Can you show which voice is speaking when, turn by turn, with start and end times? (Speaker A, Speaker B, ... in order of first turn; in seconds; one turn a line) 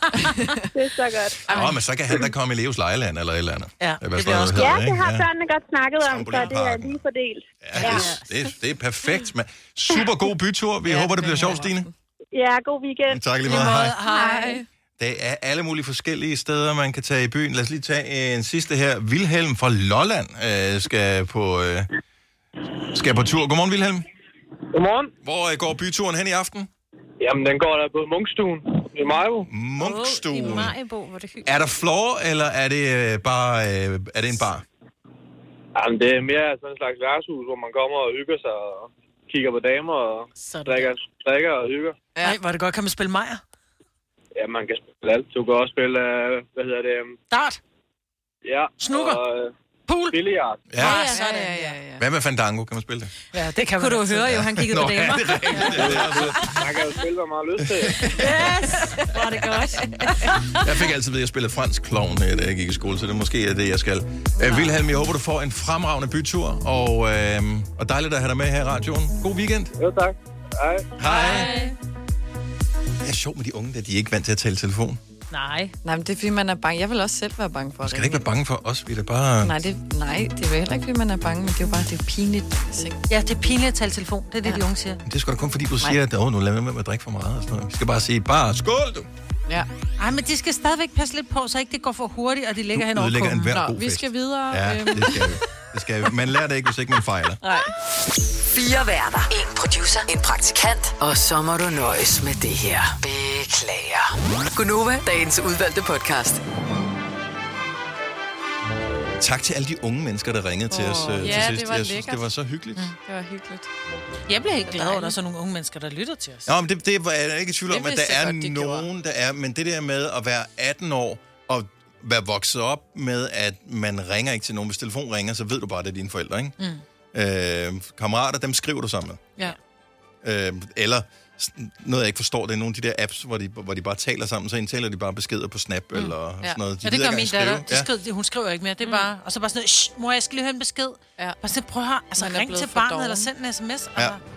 Speaker A: 0.1-0.7
Speaker A: 1.4-1.7
Speaker B: 1.5-5.3
Speaker C: 3.8-4.8
Speaker D: 4.7-7.4
Speaker B: 6.0-7.0
Speaker E: 6.2-7.0
Speaker B: 7.6-11.9
Speaker C: 7.8-8.1
Speaker F: 7.8-8.2
Speaker A: 10.9-11.9
Speaker D: 12.3-13.2
Speaker B: 13.1-13.9
Speaker C: 13.4-14.6
Speaker F: 13.6-14.5
Speaker B: 15.0-21.9
Speaker B: 22.9-24.1
Speaker B: 25.2-26.7
Speaker E: 27.3-29.4
Speaker B: 29.4-30.7
Speaker F: 29.8-31.5
Speaker B: 31.4-34.6
Speaker E: 35.8-38.5
Speaker E: 39.3-39.7
Speaker F: 40.4-40.9
Speaker E: 40.8-41.2
Speaker C: 42.2-43.4
Speaker E: 44.5-47.0
Speaker C: 47.3-47.6
Speaker C: 48.8-49.2
Speaker C: 49.9-50.2
Speaker B: 50.7-51.0
Speaker C: 50.8-51.7
Speaker F: 50.8-51.2
Speaker A: 50.9-52.0
Speaker B: 52.0-53.1
Speaker C: 53.3-54.4
Speaker F: 53.8-56.2
Speaker B: 54.3-56.6
Speaker E: 56.9-57.7
Speaker B: 57.7-58.1
Speaker F: 58.1-60.7
Speaker A: 59.4-60.1
Speaker B: 60.6-69.7
Speaker A: 64.4-64.7
Speaker B: 71.0-71.5
Speaker F: 71.0-71.7
Speaker B: 73.0-75.0
Speaker F: 75.3-75.7
Speaker A: 75.8-78.3
Speaker B: 77.8-79.5
Speaker A: 79.4-83.0
Speaker C: 83.1-85.0
Speaker B: 85.0-89.1
Speaker C: 90.0-93.5
Speaker B: 92.8-97.4
Speaker A: 93.5-95.3
Speaker A: 97.4-97.7
Speaker G: 98.5-106.4
Speaker B: 109.2-112.9
Speaker A: 110.7-112.3
Speaker A: 113.0-113.7
Speaker C: 114.3-116.5
Speaker F: 114.7-115.1
Speaker B: 116.5-126.5
Speaker A: 117.7-118.9
Speaker B: 127.1-129.3
Speaker B: 130.2-137.9
Speaker A: 135.9-136.6
Speaker C: 136.8-144.2
Speaker F: 138.8-139.1
Speaker A: 142.1-143.3